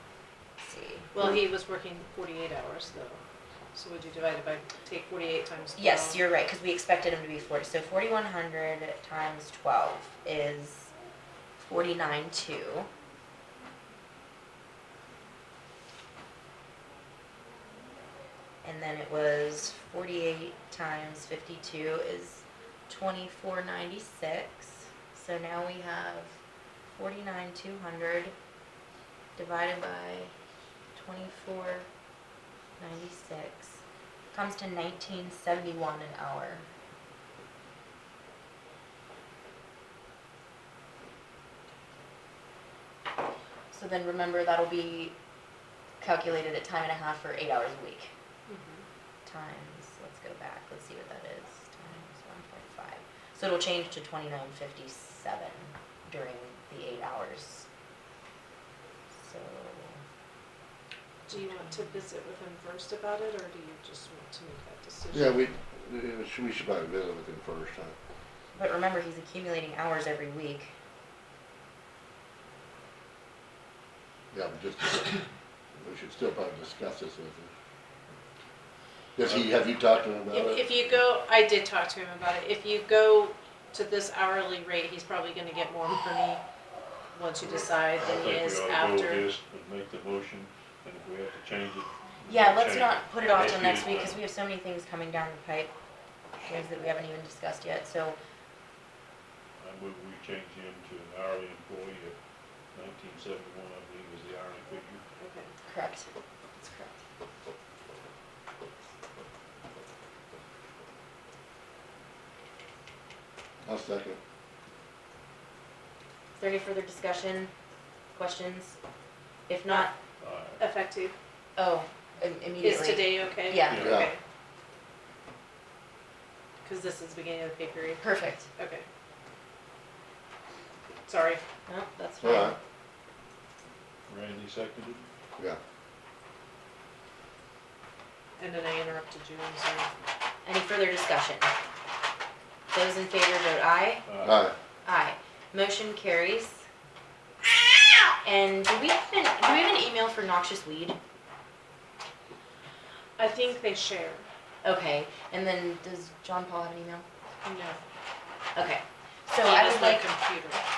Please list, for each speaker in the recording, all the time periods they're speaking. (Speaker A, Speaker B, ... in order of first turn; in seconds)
Speaker A: 0.6-1.1, 5.8-10.9, 11.6-12.9, 18.6-26.4, 26.9-28.3, 29.4-30.3, 30.9-31.9, 32.8-33.8, 34.3-36.7, 43.7-45.1, 46.0-48.1, 49.2-57.7, 59.2-60.0, 61.3-62.0, 68.5-70.7, 92.3-95.7, 96.4-98.2, 105.7-107.0, 116.4-117.5, 118.1-118.8, 119.5-119.9, 121.6-124.0, 128.0-128.5, 131.7-132.6, 140.4-141.5, 142.7-144.0, 144.8-146.7, 148.2-151.0, 154.6-157.0, 158.5-160.1
Speaker B: 1.1-3.2, 3.7-6.2, 48.5-48.8, 61.3-65.5, 80.3-86.4, 87.1-89.2, 105.2-105.5, 120.6-121.1, 122.6-124.2, 126.6-128.8, 131.1-131.4, 138.4-139.9, 153.2-154.3, 157.4-157.8, 159.4-160.6
Speaker C: 65.1-67.9, 74.3-75.2, 75.8-77.5, 79.2-80.7, 113.6-114.2, 123.7-124.1, 132.2-132.6, 144.2-144.5
Speaker D: 79.2-79.9, 87.5-94.2, 99.6-102.2, 102.7-105.0, 120.2-120.6, 123.7-124.1, 134.1-135.1, 144.1-144.5